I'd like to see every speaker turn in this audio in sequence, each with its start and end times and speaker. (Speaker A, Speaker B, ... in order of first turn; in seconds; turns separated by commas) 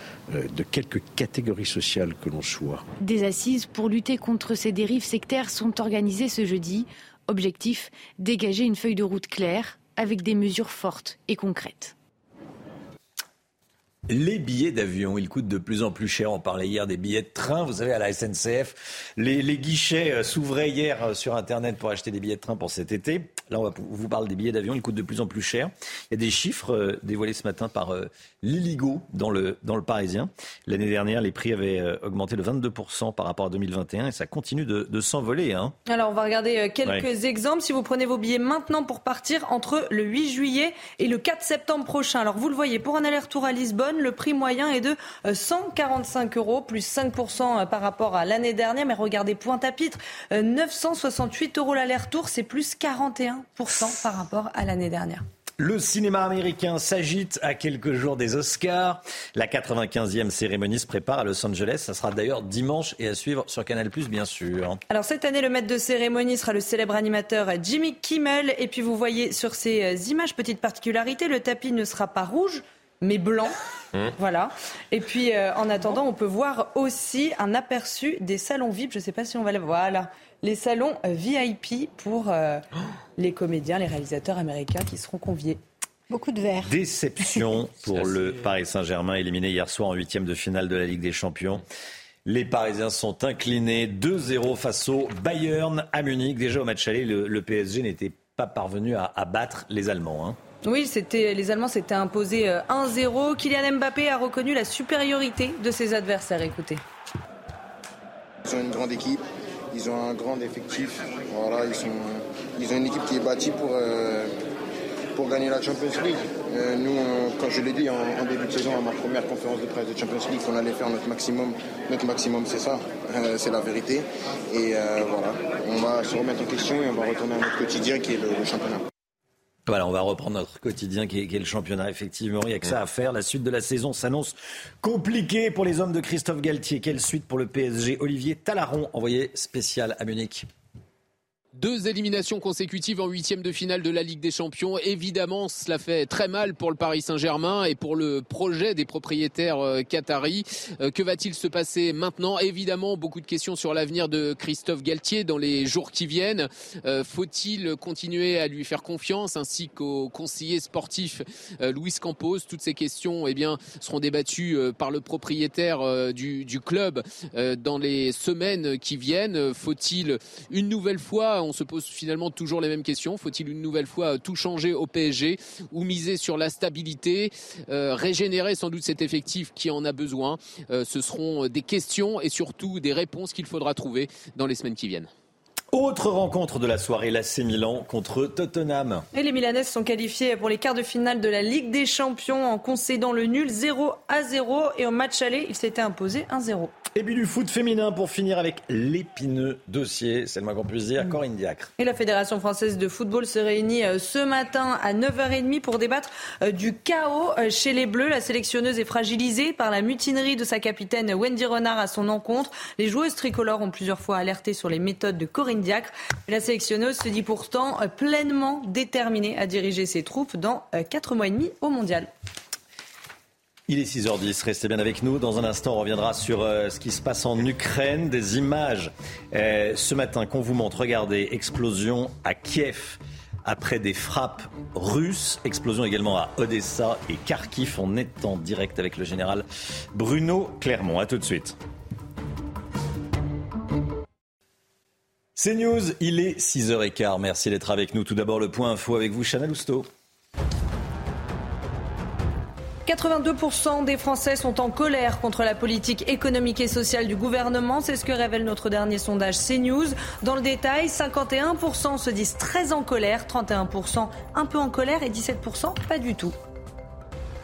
Speaker A: 0.3-2.8, Speaker B: 3.0-11.9, Speaker C: 14.1-35.7, Speaker D: 35.9-55.2, Speaker C: 55.6-64.8, Speaker D: 64.9-73.5, Speaker D: 74.2-82.6, Speaker D: 83.2-85.6, Speaker C: 86.6-91.6, Speaker C: 92.2-100.4, Speaker D: 100.6-106.8, Speaker E: 108.4-114.3, Speaker E: 115.1-128.8, Speaker C: 129.7-140.5, Speaker F: 141.5-185.1, Speaker C: 185.7-189.1, Speaker D: 189.1-196.7, Speaker C: 196.9-201.7, Speaker D: 201.8-222.1, Speaker C: 223.7-241.6, Speaker C: 245.3-249.9, Speaker D: 252.8-266.3